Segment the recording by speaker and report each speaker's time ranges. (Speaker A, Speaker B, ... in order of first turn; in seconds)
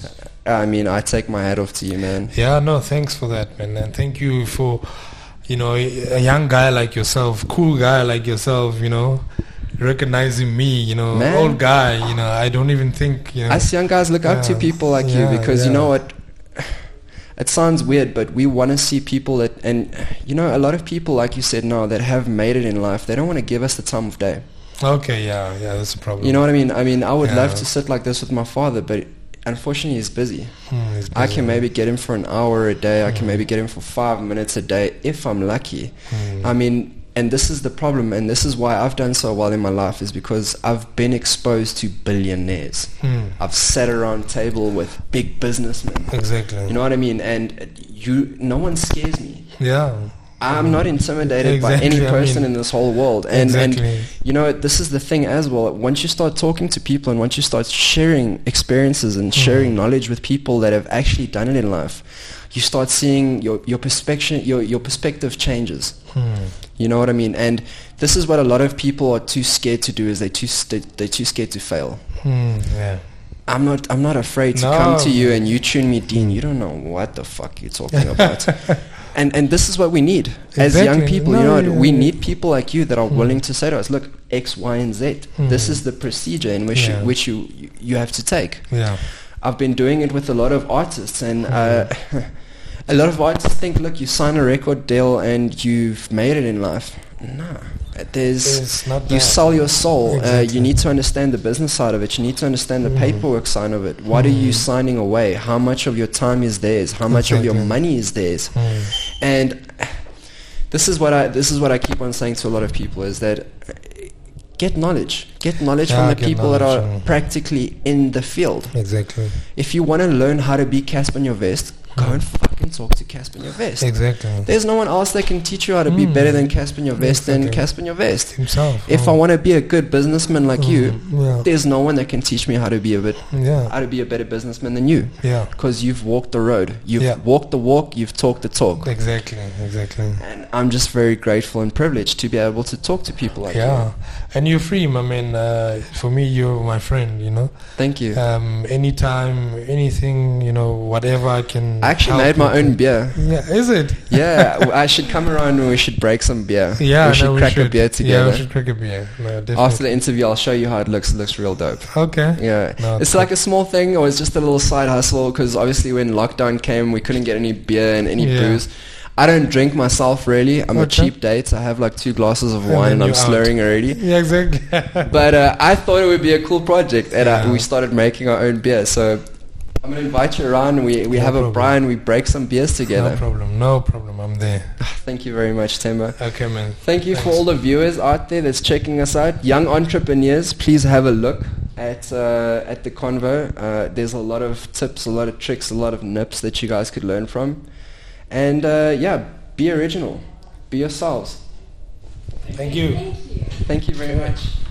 Speaker A: 0.4-2.3, 11.1-11.6, 13.5-16.8, 17.4-24.4, 26.2-30.5, 31.1-49.5, 50.4-66.0, 66.8-72.0, 73.5-88.8, 89.4-92.3, 92.9-110.0, 110.7-118.8, 119.5-138.9, 140.2-143.9, 147.8-148.2, 151.8-153.2, 154.1-158.5, 159.5-174.0, 175.0-179.2, 179.8-183.2, 184.8-186.2, 186.8-197.6, 198.3-201.4, 203.6-204.6
Speaker B: 2.3-9.2, 9.8-13.7, 14.2-15.9, 24.8-26.4, 27.2-27.6, 30.7-31.6, 33.1-33.4, 36.1-36.5, 43.0-43.4, 46.1-46.7, 49.6-52.5, 53.3-54.1, 59.4-59.7, 66.1-66.5, 72.2-73.0, 74.5-75.4, 78.2-78.7, 80.5-82.1, 83.1-83.4, 85.3-85.8, 86.7-87.1, 88.7-89.0, 91.5-91.9, 98.4-100.8, 102.8-103.2, 104.1-104.6, 107.1-107.8, 108.5-108.9, 115.9-117.1, 118.7-119.4, 123.8-124.5, 125.9-127.7, 128.3-129.2, 130.6-131.5, 133.3-133.7, 135.2-135.5, 138.8-140.2, 143.5-147.5, 148.1-154.6, 156.8-159.8, 161.9-163.3, 168.2-168.6, 170.7-171.1, 172.7-175.1, 177.2-177.7, 181.1-181.8, 182.9-184.8, 186.2-187.4, 202.5-203.4, 204.1-204.3